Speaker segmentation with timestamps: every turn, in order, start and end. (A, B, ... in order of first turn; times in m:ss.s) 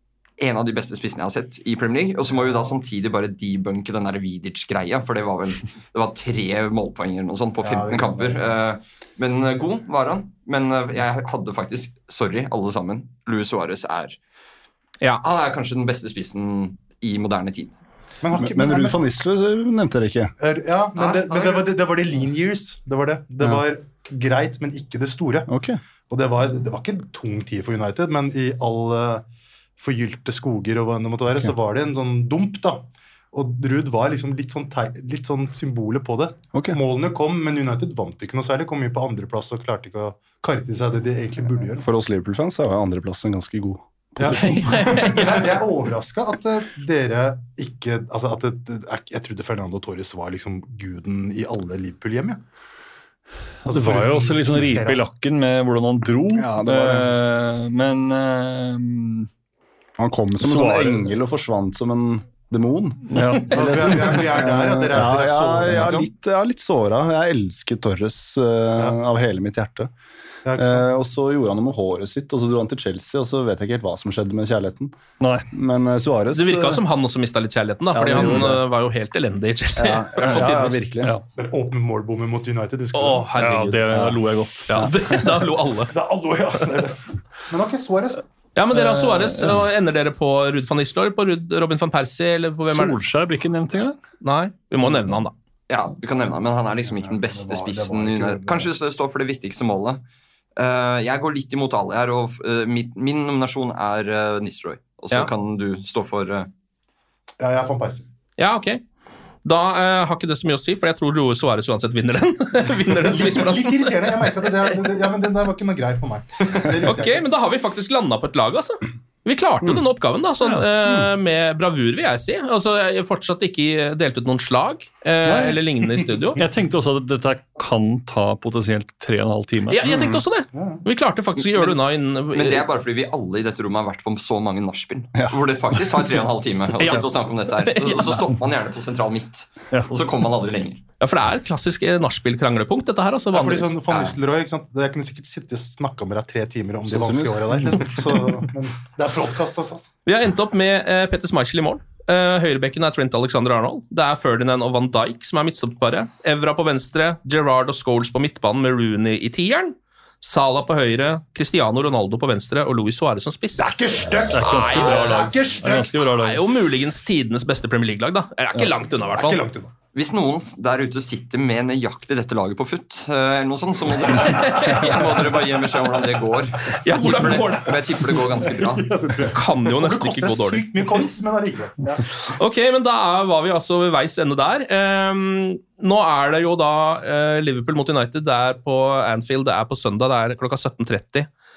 0:00.4-0:14.2 A
0:07.6-0:08.5 B
0:15.2-0:17.7 A
0:18.2-0:19.0 B
0:18.4-0:20.3 C
0:20.4-0:25.5 B
0:21.0-0:21.8 A
0:25.5-0:25.8 C
0:26.1-0:29.2 B
0:29.8-0:41.9 B
0:36.5-0:36.8 C
0:41.8-0:45.1 C
0:44.2-0:52.4 B
0:44.3-0:45.6 D
0:53.6-0:55.0 B
0:53.6-0:59.3 E
0:56.3-0:57.1 C
1:00.0-1:09.9 C
1:00.4-1:01.2 E
1:03.1-1:04.2 E
1:03.5-1:06.1 B
1:10.4-1:10.8 B
1:10.5-1:14.9 C
1:15.2-1:15.5 E
1:15.5-1:16.8 C
1:16.3-1:20.8 D
1:17.9-1:18.6 C
1:19.8-1:21.1 C
1:21.4-1:23.3 B
1:22.9-1:23.8 D
1:23.4-1:24.9 E
1:23.9-1:24.2 C
1:24.7-1:25.9 D
1:25.9-1:28.2 B
1:28.6-1:33.0 D
1:28.7-1:29.6 E
1:32.7-1:34.0 E
1:34.2-1:35.3 D
1:35.7-1:40.0 A
1:36.8-1:38.7 B
1:40.6-1:46.5 A
1:47.4-1:48.1 B
1:48.4-1:48.8 D
1:49.4-1:54.2 D
1:52.9-1:57.2 B
1:56.8-2:06.4 D
2:00.4-2:00.7 E
2:05.2-2:05.6 E
2:06.4-2:10.1 E
2:09.7-2:12.6 D
2:10.5-2:10.8 B
2:12.3-2:20.8 A
2:16.8-2:18.2 D
2:21.0-2:24.1 D
2:23.3-2:29.9 B
2:26.9-2:27.8 C
2:30.0-2:43.7 D
2:43.6-2:46.1 B
2:44.3-2:46.4 E
2:44.4-2:45.4 D
2:46.2-2:49.4 D
2:49.1-2:49.7 B
2:49.9-2:58.9 A
2:54.1-2:55.2 D
2:56.7-2:57.7 D
2:57.1-2:57.5 B
2:58.4-3:02.0 B
2:59.3-3:00.8 D
3:02.2-3:11.3 D